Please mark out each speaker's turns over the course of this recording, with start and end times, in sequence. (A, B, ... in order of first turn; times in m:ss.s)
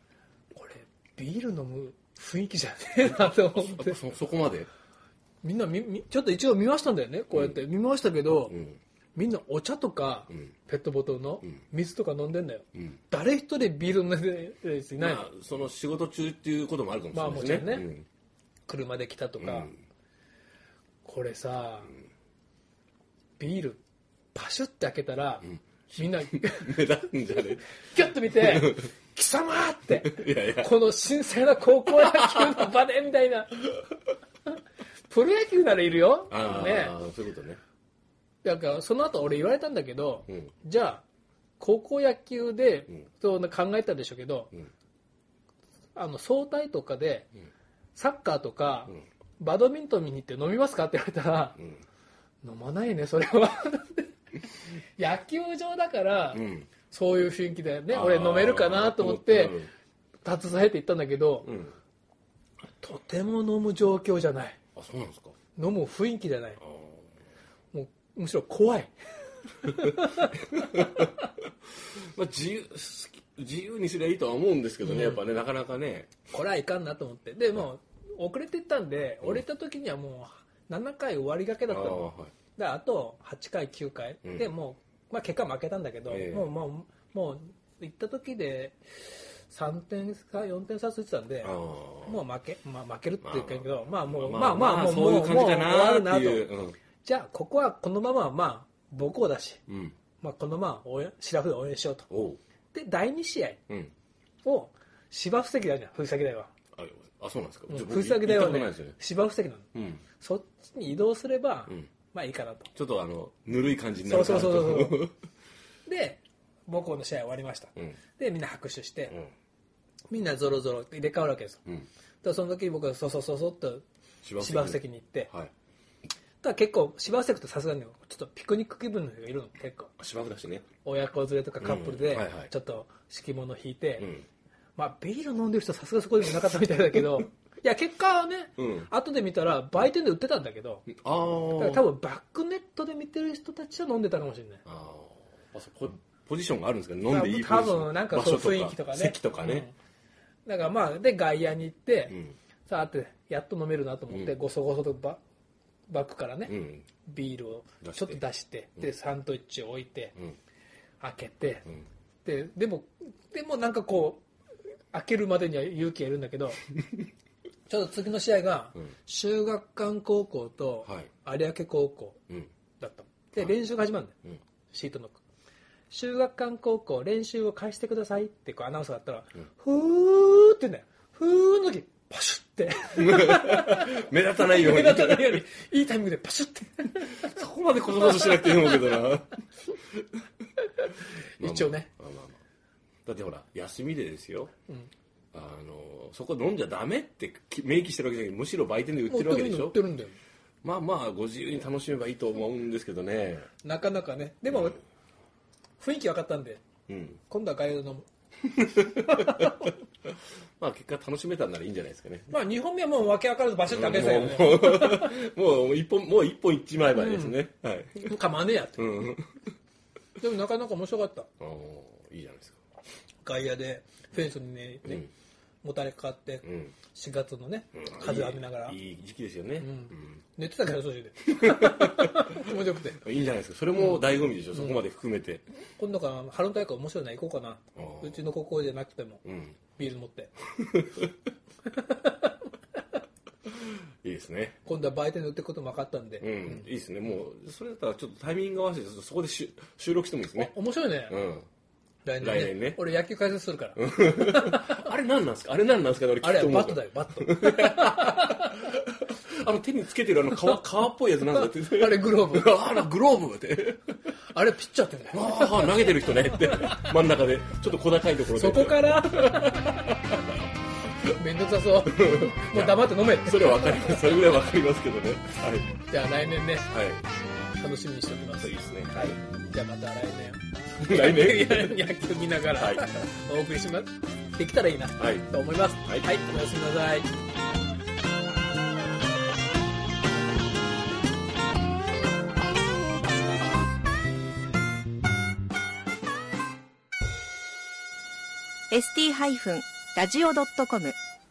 0:00.5-0:04.0 A
0:03.0-0:04.7 B
0:05.4-0:08.6 A
0:07.3-0:07.6 B
0:08.5-0:08.8 B
0:09.2-0:15.3 A
0:15.0-0:18.1 B
0:17.1-0:17.9 A
0:18.7-0:19.7 A
0:19.4-0:19.8 B
0:21.0-0:21.9 A
0:23.4-0:23.8 A
0:24.3-0:26.9 A
0:26.5-0:28.9 B
0:27.8-0:33.8 A
0:29.9-0:30.8 B
0:31.5-0:32.7 B
0:35.1-0:37.0 A
0:36.3-0:37.6 B
0:38.4-0:41.0 A
0:41.6-0:44.5 A
0:46.0-0:47.3 A
0:48.0-0:51.6 A
0:51.6-0:51.8 B
0:52.4-0:54.1 A
0:55.0-0:59.6 A
0:56.3-0:56.7 B
0:57.9-0:59.7 B
1:00.2-1:01.5 A
1:01.4-1:01.8 B
1:02.8-1:04.6 A
1:04.8-1:05.4 B
1:05.6-1:06.6 A
1:06.6-1:07.1 B
1:07.7-1:08.9 A
1:09.4-1:11.1 A
1:10.4-1:11.1 B
1:11.8-1:16.1 B
1:14.8-1:15.2 A
1:16.3-1:28.8 A
1:21.7-1:22.3 B
1:24.2-1:24.5 B
1:26.1-1:26.5 B
1:29.5-1:36.5 A
1:31.4-1:32.2 B
1:33.2-1:36.8 B
1:37.0-1:39.6 A
1:39.7-1:40.0 B
1:40.2-1:42.1 A
1:42.1-1:42.4 B
1:42.7-1:43.6 A
1:44.4-1:46.5 A
1:46.7-1:49.0 B
1:47.7-1:49.7 A
1:49.7-1:50.0 B
1:50.2-1:52.7 A
1:52.7-1:55.1 B
1:54.0-1:55.1 A
1:55.9-1:59.2 A
2:00.1-2:01.6 A
2:02.2-2:03.8 A
2:04.2-2:05.5 B
2:04.4-2:05.3 A
2:06.4-2:09.9 A
2:10.0-2:10.7 B
2:10.8-2:14.1 A
2:11.6-2:12.5 B
2:14.0-2:14.3 B
2:14.8-2:20.9 A
2:18.6-2:18.9 B
2:20.9-2:21.9 B
2:21.6-2:24.6 A
2:24.7-2:29.7 B
2:27.1-2:29.7 A
2:30.4-2:35.2 A
2:32.1-2:32.4 B
2:35.9-2:40.2 A
2:36.5-2:36.9 B
2:37.8-2:38.2 B
2:41.0-2:41.7 A
2:42.2-2:44.2 A
2:44.9-2:46.6 A
2:47.7-2:52.2 A
2:52.8-2:54.2 A
2:54.7-2:55.2 A
2:55.9-3:07.4 A
3:03.0-3:05.4 B
3:07.2-3:10.0 B
3:08.0-3:09.0 A
3:10.8-3:11.9 A
3:11.4-3:12.4 B
3:13.0-3:14.5 B
3:15.3-3:19.8 B
3:19.1-3:20.2 A
3:20.6-3:23.5 B
3:23.6-3:24.8 A
3:24.5-3:24.8 B
3:25.8-3:26.6 A
3:26.9-3:27.2 B
3:27.3-3:28.1 A
3:28.5-3:29.7 B
3:29.1-3:29.5 A
3:30.6-3:32.4 B
3:32.3-3:35.1 A
3:33.7-3:38.2 B
3:36.9-3:37.4 A
3:38.0-3:39.1 A
3:38.8-3:39.4 B
3:40.2-3:41.3 A
3:41.4-3:42.6 B
3:43.2-3:45.1 A
3:44.8-3:45.1 B
3:45.6-3:48.8 A
3:46.4-3:46.7 B
3:47.8-3:50.2 B
3:49.6-3:53.0 A
3:51.3-3:55.4 B
3:53.8-3:54.0 A
3:55.8-4:00.3 A
3:57.8-3:58.2 B
3:59.2-3:59.6 B
4:00.6-4:01.1 B
4:01.7-4:02.3 A
4:04.0-4:04.6 B
4:04.6-4:06.6 A
4:06.2-4:11.5 B
4:10.4-4:11.2 A
4:12.1-4:14.9 A
4:12.2-4:12.9 B
4:13.8-4:24.0 B
4:16.2-4:18.6 A
4:21.4-4:22.8 A
4:24.3-4:25.8 A
4:25.1-4:30.3 B
4:26.5-4:26.9 A
4:28.4-4:30.1 A
4:31.1-4:34.4 A
4:31.8-4:35.8 B
4:35.9-4:36.7 A
4:36.7-4:37.1 B
4:37.6-4:47.1 A
4:38.4-4:39.2 B
4:40.8-4:41.9 B
4:42.5-4:42.9 B
4:45.0-4:46.1 B
4:58.7-5:01.0 C